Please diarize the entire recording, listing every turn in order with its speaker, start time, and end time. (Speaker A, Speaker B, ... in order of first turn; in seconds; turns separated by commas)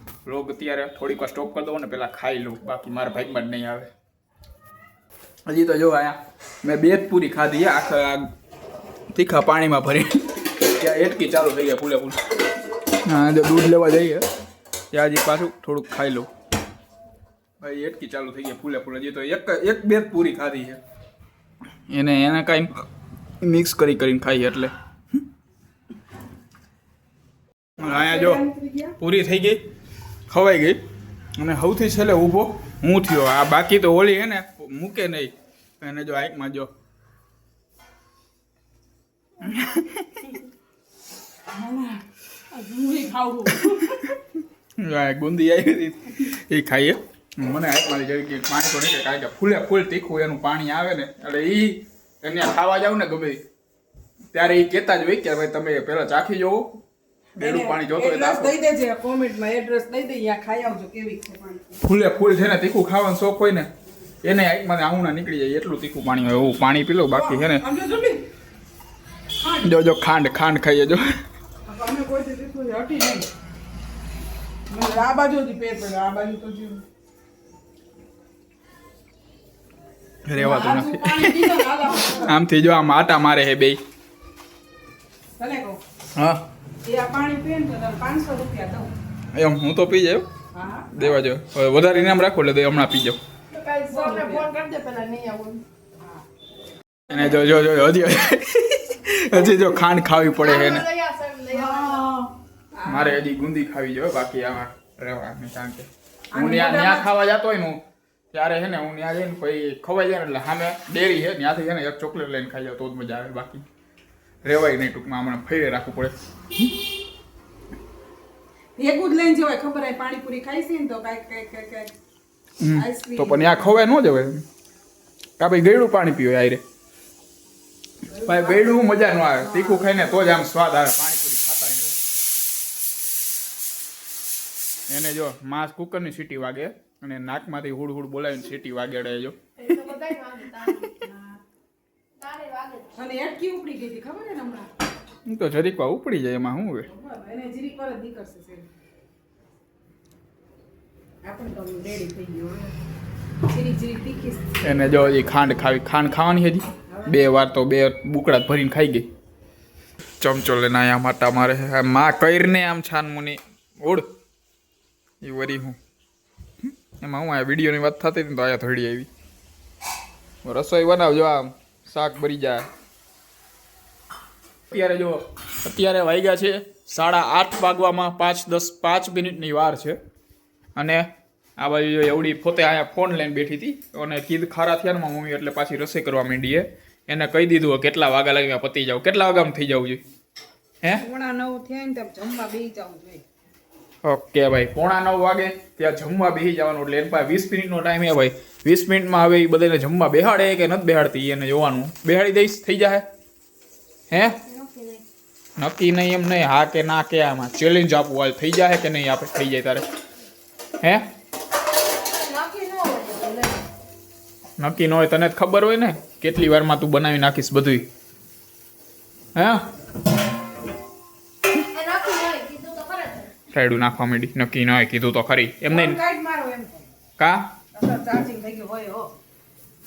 Speaker A: 0.2-3.9, Speaker A: 5.5-8.3, Speaker A: 9.1-12.2, Speaker A: 13.0-14.3, Speaker A: 14.9-16.3, Speaker A: 17.6-20.8, Speaker A: 21.9-22.8, Speaker A: 23.4-24.7, Speaker A: 27.8-28.4, Speaker B: 27.8-28.9, Speaker A: 29.0-29.6, Speaker A: 30.3-30.8, Speaker A: 31.4-36.7, Speaker A: 39.4-40.3, Speaker B: 41.5-44.0, Speaker A: 43.6-44.1, Speaker A: 44.8-53.4, Speaker A: 54.3-56.8, Speaker A: 57.4-58.5, Speaker B: 57.4-61.8, Speaker A: 61.8-63.7, Speaker A: 64.2-67.6, Speaker B: 67.1-68.2, Speaker B: 69.4-69.7, Speaker A: 69.6-71.0, Speaker B: 71.7-73.3, Speaker B: 74.7-76.8, Speaker A: 80.2-83.8, Speaker B: 80.3-82.4, Speaker B: 85.4-85.8, Speaker A: 86.2-86.4, Speaker B: 86.8-88.9, Speaker A: 89.3-90.3, Speaker B: 90.5-91.0, Speaker A: 90.9-93.2, Speaker C: 93.5-95.6, Speaker B: 93.9-94.5, Speaker A: 97.1-100.9, Speaker C: 100.4-102.1, Speaker B: 101.5-103.2, Speaker A: 102.8-113.6, Speaker B: 106.3-107.2, Speaker A: 114.4-116.1, Speaker B: 118.8-121.9, Speaker A: 122.6-124.5, Speaker B: 122.7-123.7, Speaker A: 125.4-126.6, Speaker B: 128.1-130.4, Speaker A: 128.1-132.0, Speaker A: 134.9-139.5, Speaker C: 139.6-141.0, Speaker B: 141.0-141.4, Speaker C: 142.2-143.0, Speaker B: 142.9-144.7, Speaker A: 145.2-146.9, Speaker B: 146.9-148.7, Speaker B: 151.2-152.8, Speaker B: 153.5-154.6, Speaker A: 154.6-159.1, Speaker B: 156.9-157.2, Speaker A: 160.2-164.1, Speaker A: 165.2-165.8, Speaker A: 167.0-169.1, Speaker A: 170.4-172.7, Speaker A: 174.7-180.0, Speaker A: 180.8-190.0, Speaker B: 191.0-193.2, Speaker A: 194.0-203.1, Speaker A: 204.1-204.4, Speaker C: 204.2-205.0, Speaker A: 205.6-209.9, Speaker C: 212.0-213.7, Speaker A: 214.6-217.9, Speaker A: 219.3-219.7, Speaker C: 221.7-223.3, Speaker A: 223.5-226.0, Speaker B: 225.7-226.9, Speaker A: 227.2-227.5, Speaker B: 227.7-229.1